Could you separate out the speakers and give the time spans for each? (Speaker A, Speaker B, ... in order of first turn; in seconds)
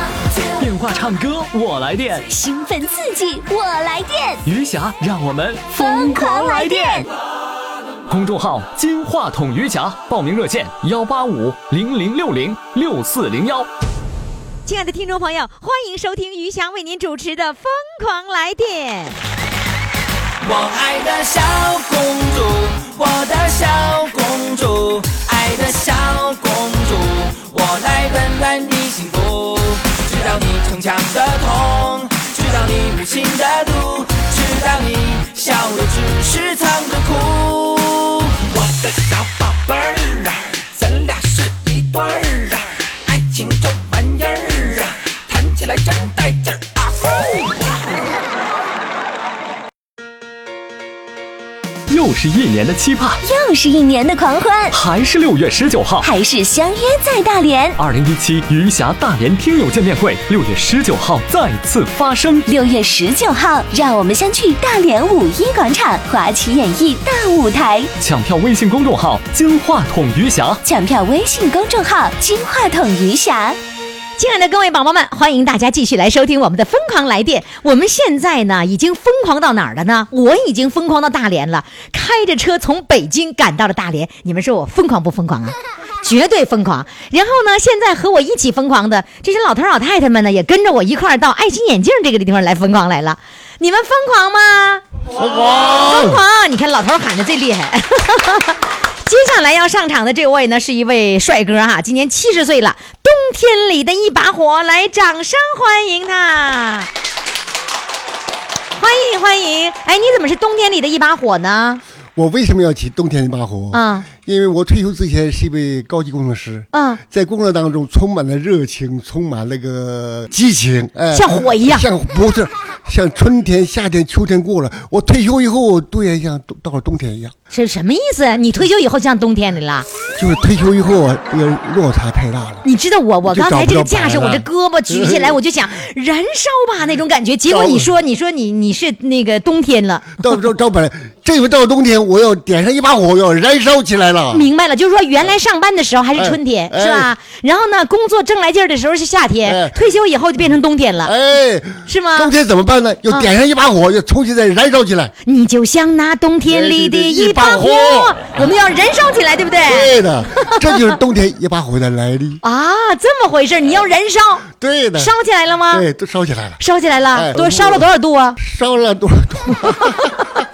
Speaker A: 0.6-2.3, 4.4-7.1, 8.1-13.7, 51.9-53.2, 54.7-56.1, 57.8-62.5, 68.0-70.6
Speaker B: 2.2-4.4, 5.7-7.0, 53.2-54.8, 56.0-57.8, 62.5-67.9, 70.6-73.6
Speaker C: 14.7-19.1, 74.2-94.8, 95.5-106.9, 108.8-111.8, 113.7-114.1, 116.7-117.0, 121.1-121.8, 127.5-129.8, 132.6-140.1, 144.3-151.1, 151.8-152.3, 155.2-159.9, 162.4-164.4, 165.0-165.8, 166.6-168.4
Speaker D: 20.4-47.9
Speaker E: 95.2-96.2, 112.2-127.3, 130.2-132.6, 133.2-135.4, 137.5-137.9, 140.2-144.5, 146.2-147.1, 149.4-149.8, 151.0-155.1, 156.5-158.5, 159.6-162.4, 164.5-165.1, 165.7-166.6, 167.1-170.1